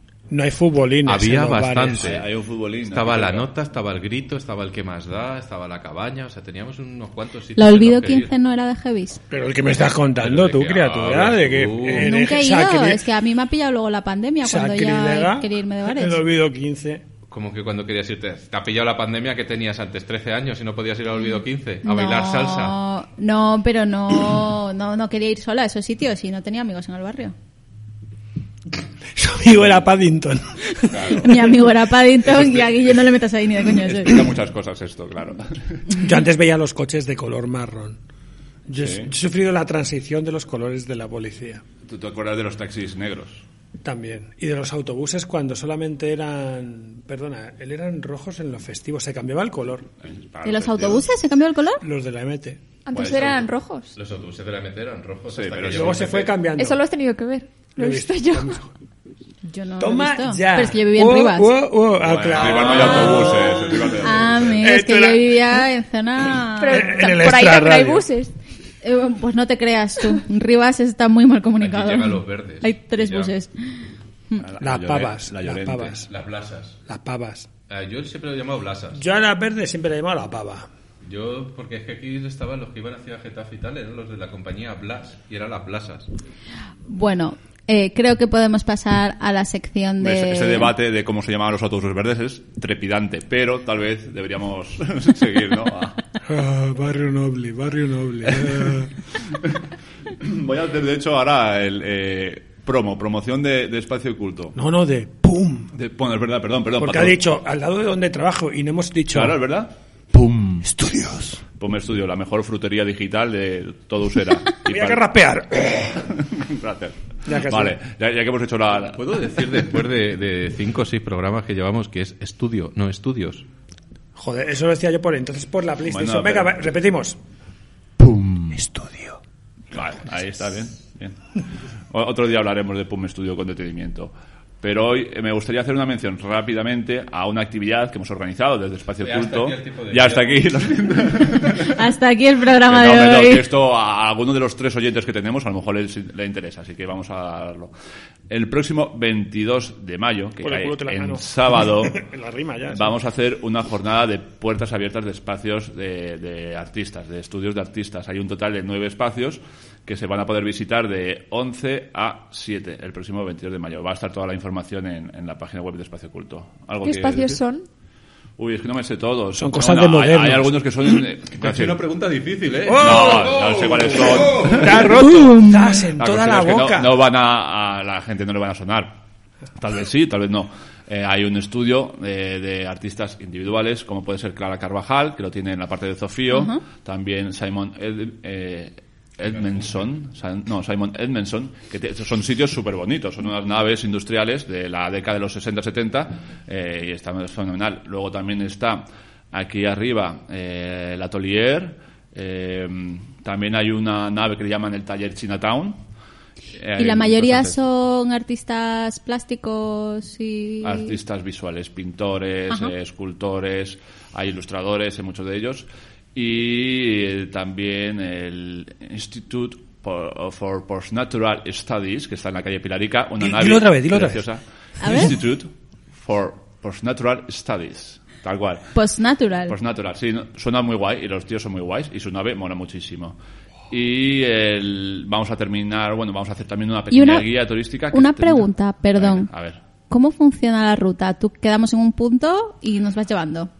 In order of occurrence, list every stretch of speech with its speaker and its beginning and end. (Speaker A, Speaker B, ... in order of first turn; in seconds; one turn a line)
Speaker A: 0.3-2.1
Speaker B: 1.0-2.2
Speaker C: 2.0-3.5
Speaker B: 2.9-8.3
Speaker D: 7.5-9.2
Speaker A: 9.3-13.0
Speaker B: 10.2-12.1
Speaker D: 12.0-16.2
Speaker A: 14.4-17.0
Speaker B: 17.3-22.8
Speaker D: 21.8-27.3
Speaker A: 29.1-31.5
Speaker D: 31.2-34.2
Speaker C: 33.8-35.9
Speaker A: 35.9-38.0
Speaker A: 38.7-41.6
Speaker C: 38.8-39.1
Speaker C: 41.9-43.4
Speaker A: 43.8-49.9
Speaker C: 50.0-51.1
Speaker D: 50.4-51.8
Speaker A: 51.8-52.6
Speaker E: 52.8-53.9
Speaker C: 52.9-53.5
Speaker B: 54.0-56.3
Speaker C: 55.3-56.1
Speaker A: 55.7-56.8
Speaker E: 56.6-58.6
Speaker A: 57.7-58.7
Speaker D: 59.5-61.6
Speaker A: 59.8-63.6
Speaker B: 62.0-63.3
Speaker C: 62.3-64.6
Speaker D: 62.9-63.5
Speaker D: 64.0-66.9
Speaker A: 64.6-65.6
Speaker E: 66.6-68.3
Speaker A: 66.7-68.1
Speaker D: 68.8-74.5
Speaker B: 71.6-73.3
Speaker C: 74.4-76.0
Speaker A: 74.6-76.1
Speaker B: 76.1-76.8
Speaker A: 76.9-77.5
Speaker B: 77.7-79.0
Speaker A: 78.9-80.7
Speaker B: 81.0-86.1
Speaker D: 86.9-90.7
Speaker C: 90.0-96.0
Speaker A: 96.2-98.9
Speaker C: 98.3-98.7
Speaker C: 100.2-104.5
Speaker A: 104.5-105.7
Speaker C: 105.7-107.2
Speaker A: 106.8-109.4
Speaker C: 109.1-109.7
Speaker A: 110.6-111.4
Speaker C: 111.6-115.0
Speaker A: 114.7-116.1
Speaker C: 116.0-119.7
Speaker A: 117.2-117.8
Speaker B: 118.9-123.5
Speaker A: 124.2-127.2
Speaker C: 125.8-126.6
Speaker A: 128.5-129.2
Speaker C: 129.7-131.2
Speaker C: 131.9-141.7
Speaker B: 139.0-140.9
Speaker D: 141.7-143.5
Speaker C: 142.7-147.7
Speaker C: 148.3-152.0
Speaker A: 150.4-152.9
Speaker C: 152.7-167.4
Speaker E: 166.8-167.7
Speaker C: 168.4-171.8
Speaker A: 169.4-170.6
Speaker B: 171.3-174.8
Speaker A: 172.7-173.2
Speaker C: 172.7-175.2
Speaker A: 174.3-177.0
Speaker C: 176.0-179.0
Speaker C: 179.6-205.8
Speaker D: 186.3-186.6
Speaker C: 206.5-207.6
Speaker D: 206.8-210.9
Speaker C: 210.6-228.8
Speaker A: 223.2-224.3
Speaker D: 224.8-225.1
Speaker D: 228.7-229.5
Speaker C: 229.5-233.2
Speaker C: 233.7-239.6
Speaker D: 236.9-239.3
Speaker D: 239.9-243.5